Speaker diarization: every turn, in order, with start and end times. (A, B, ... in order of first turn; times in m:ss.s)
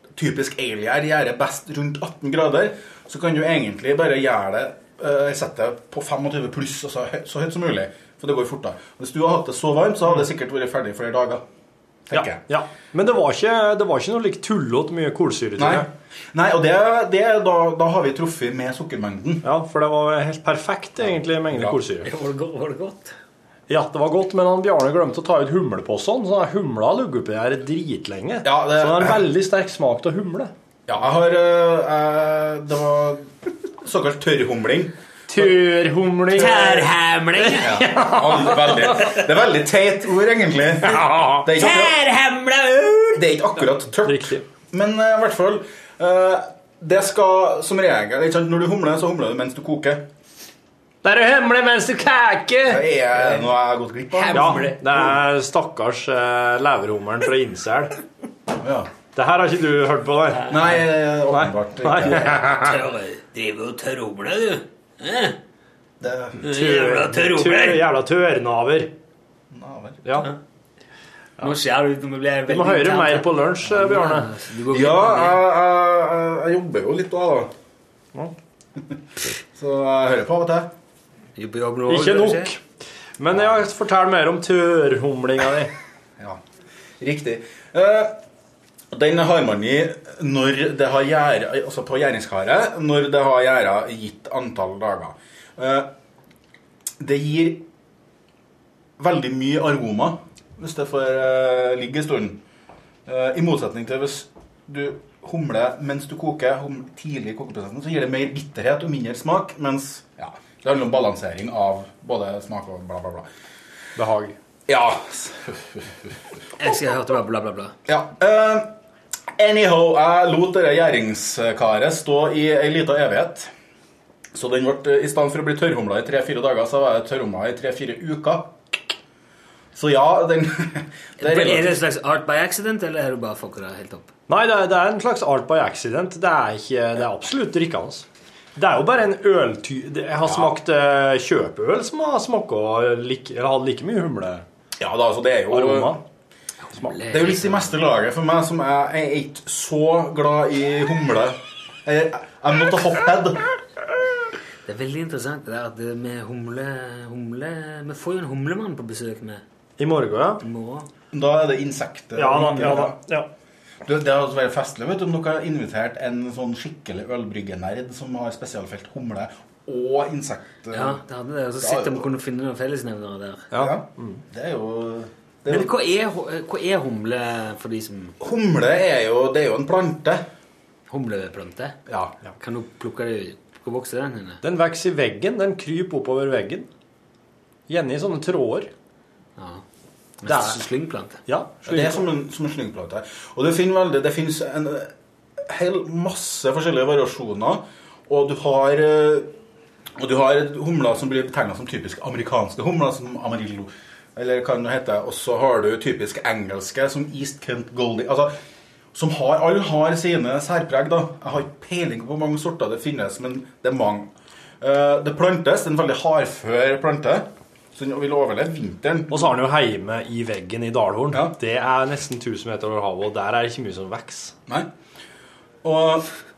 0:00.2-0:11.4 A
0:12.1-0:12.4 A
0:12.1-0:15.9 B
0:15.6-0:19.4 A
0:19.4-0:22.1 B
0:21.0-0:21.8 A
0:22.0-0:23.2 C
0:23.7-0:30.5 B
0:28.4-0:29.2 A
0:30.9-0:35.5 A
0:35.3-0:39.3 B
0:36.4-0:37.7 C
0:37.6-0:42.0 A
0:40.8-0:43.2 B
0:41.6-0:42.7 C
0:43.2-0:50.0 A
0:44.0-0:44.4 B
0:51.0-0:53.4 B
0:52.7-0:55.2 A
0:54.1-0:54.8 C
0:54.3-0:58.0 B
0:58.6-0:58.9 A
0:59.2-1:02.8 B
1:00.5-1:02.3 A
1:02.1-1:05.4 C
1:06.0-1:06.4 A
1:06.4-1:07.8 C
1:06.4-1:08.9 B
1:09.5-1:10.3 A
1:10.0-1:10.3 B
1:11.4-1:15.4 C
1:12.5-1:14.3 B
1:14.7-1:17.5 A
1:19.5-1:20.7 A
1:21.4-1:22.5 C
1:21.9-1:22.6 B
1:23.2-1:25.7 B
1:23.3-1:23.7 A
1:27.0-1:28.2 A
1:28.9-1:35.9 A
1:37.0-1:37.7 A
1:39.0-1:42.4 A
1:43.1-1:53.3 A
1:54.0-1:54.4 B
1:54.7-1:55.8 A
1:56.6-1:57.8 C
1:57.9-1:58.7 A
1:59.4-2:03.5 A
2:04.3-2:08.9 A
2:09.8-2:11.8 A
2:11.2-2:14.1 C
2:14.3-2:24.4 B
2:20.2-2:20.6 A
2:24.8-2:26.0 A
2:25.5-2:26.0 B
2:26.6-2:27.7 C
2:27.1-2:33.6 A
2:34.7-2:39.4 C
2:39.8-2:40.4 B
2:40.4-2:40.9 C
2:41.1-2:43.0 A
2:42.2-2:43.3 B
2:43.8-2:51.0 A
2:50.7-2:53.5 C
2:51.6-2:52.1 A
2:53.5-2:54.2 B
2:53.6-2:55.7 A
2:55.5-2:58.2 C
2:58.2-3:00.2 A
3:00.9-3:01.8 C
3:01.9-3:02.2 A
3:02.4-3:04.4 C
3:04.4-3:06.7 B
3:07.7-3:08.7 B
3:09.4-3:09.6 C
3:10.2-3:11.2 C
3:10.3-3:10.6 B
3:11.3-3:12.1 B
3:11.6-3:14.9 A
3:15.5-3:19.3 A
3:20.0-3:28.3 A
3:28.9-3:34.1 A
3:34.6-3:39.3 A
3:39.1-3:44.3 B
3:45.6-3:46.1 A